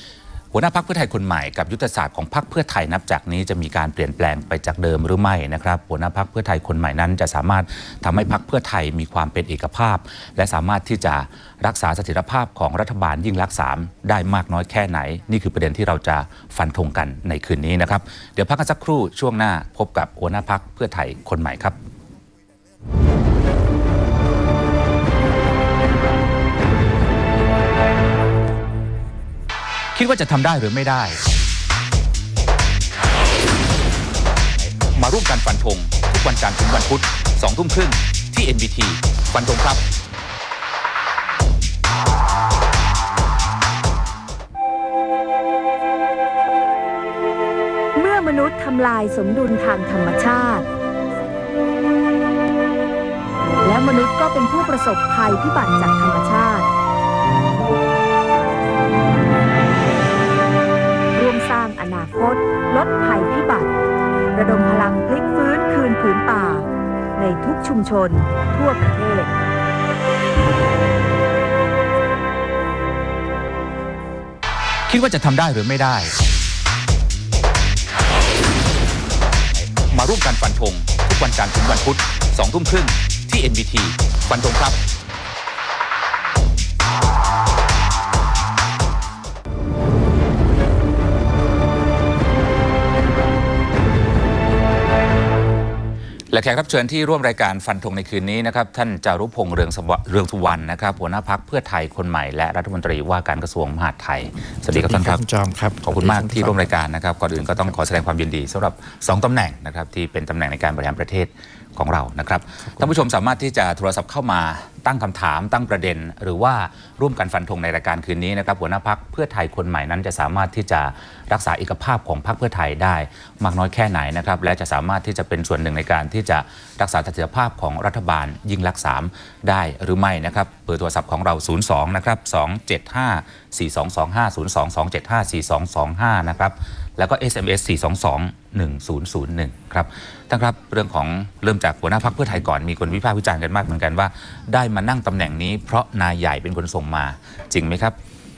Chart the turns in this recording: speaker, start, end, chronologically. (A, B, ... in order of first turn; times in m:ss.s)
0:00.5-0:21.8 A
0:29.9-0:31.2 A
0:34.9-0:39.8 A
0:48.0-0:50.6 B
0:53.6-0:56.7 B
1:01.1-1:03.7 B
1:04.3-1:09.3 B
1:14.9-1:16.2 A
1:19.7-1:24.8 A
1:36.3-1:45.2 A
1:44.7-1:46.7 C
1:45.8-2:28.0 A
1:47.5-1:47.7 C